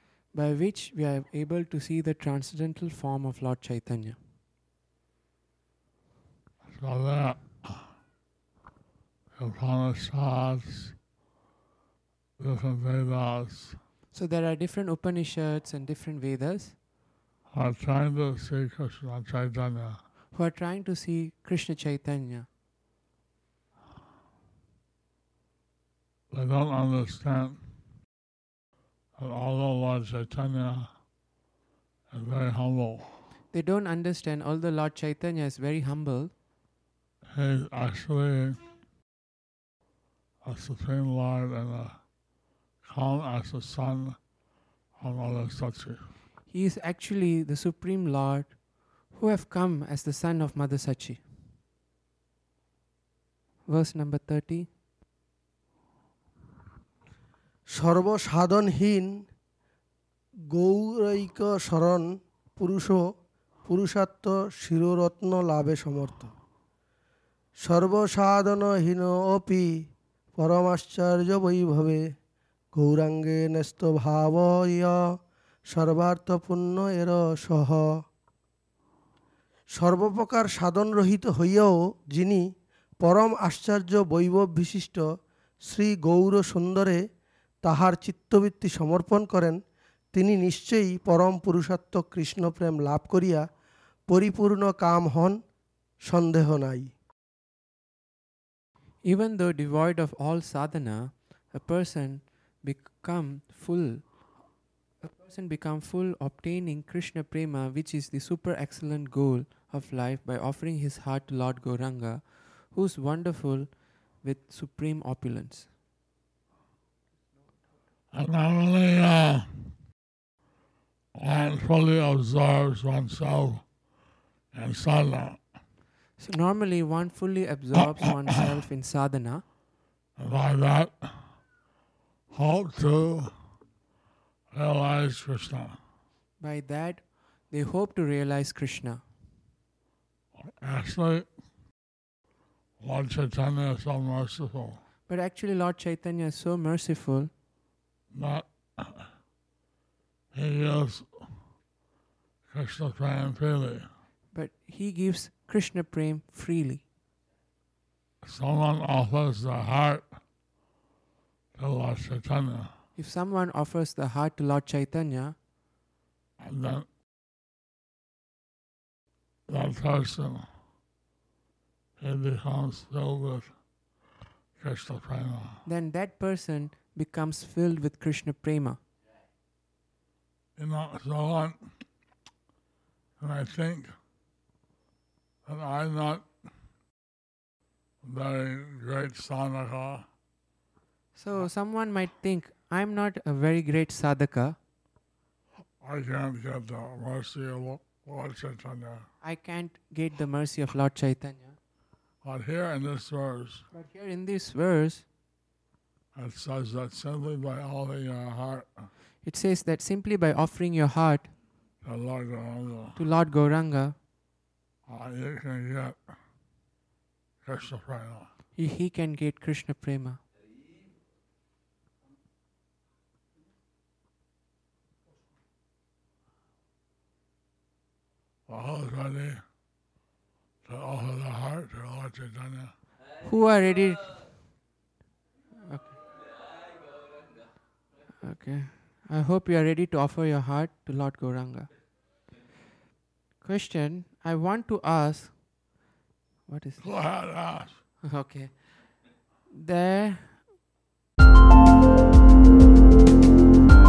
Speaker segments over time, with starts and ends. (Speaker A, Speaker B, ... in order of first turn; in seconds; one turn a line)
Speaker A: 0.3-4.2
Speaker B: 6.7-7.9
Speaker B: 9.4-11.0
Speaker B: 12.4-13.8
Speaker A: 14.1-16.8
Speaker B: 17.5-20.0
Speaker A: 20.3-22.5
Speaker B: 26.3-27.6
Speaker B: 29.2-30.9
Speaker B: 32.1-33.2
Speaker A: 33.5-36.3
Speaker B: 37.3-38.6
Speaker B: 40.4-42.0
Speaker B: 42.8-44.2
Speaker B: 45.0-46.1
Speaker A: 46.5-48.5
Speaker A: 49.1-51.2
Speaker A: 53.7-54.7
Speaker C: 57.7-59.1
Speaker C: 60.5-63.0
Speaker C: 63.7-66.3
Speaker C: 67.6-69.7
Speaker C: 70.4-72.0
Speaker C: 72.7-75.0
Speaker C: 75.7-77.8
Speaker C: 79.8-82.4
Speaker C: 83.0-85.1
Speaker C: 85.7-87.0
Speaker C: 87.6-89.6
Speaker C: 90.1-93.5
Speaker C: 94.1-95.4
Speaker C: 96.1-96.9
Speaker A: 99.0-104.1
Speaker A: 105.0-113.7
Speaker A: 114.2-115.7
Speaker B: 118.1-119.5
Speaker B: 121.2-123.6
Speaker B: 124.5-125.4
Speaker A: 126.2-129.4
Speaker B: 130.2-131.2
Speaker B: 132.3-133.3
Speaker B: 134.5-135.8
Speaker A: 136.4-139.0
Speaker B: 140.4-141.3
Speaker B: 142.8-144.8
Speaker A: 145.1-147.3
Speaker B: 148.1-149.1
Speaker B: 150.3-151.1
Speaker B: 152.5-153.9
Speaker A: 154.3-156.8
Speaker B: 158.2-160.1
Speaker B: 161.6-162.7
Speaker A: 163.0-165.4
Speaker B: 166.4-166.9
Speaker B: 169.5-170.5
Speaker B: 172.0-173.5
Speaker B: 174.6-175.6
Speaker A: 175.7-178.8
Speaker B: 180.6-181.6
Speaker B: 183.2-183.9
Speaker B: 185.5-186.3
Speaker B: 188.0-190.1
Speaker A: 191.2-194.6
Speaker B: 195.8-199.1
Speaker A: 199.2-201.6
Speaker B: 202.2-203.7
Speaker A: 203.7-205.1
Speaker B: 206.2-208.9
Speaker A: 209.2-211.3
Speaker B: 211.8-213.0
Speaker A: 213.0-214.0
Speaker B: 214.9-216.0
Speaker B: 217.4-218.3
Speaker A: 218.6-220.2
Speaker B: 228.5-229.4
Speaker B: 230.7-232.7
Speaker A: 233.2-234.3
Speaker A: 235.7-236.0
Speaker A: 238.2-241.7
Speaker A: 243.4-245.4
Speaker A: 246.5-246.8
Speaker B: 246.8-247.8
Speaker A: 248.0-248.6
Speaker A: 249.5-250.4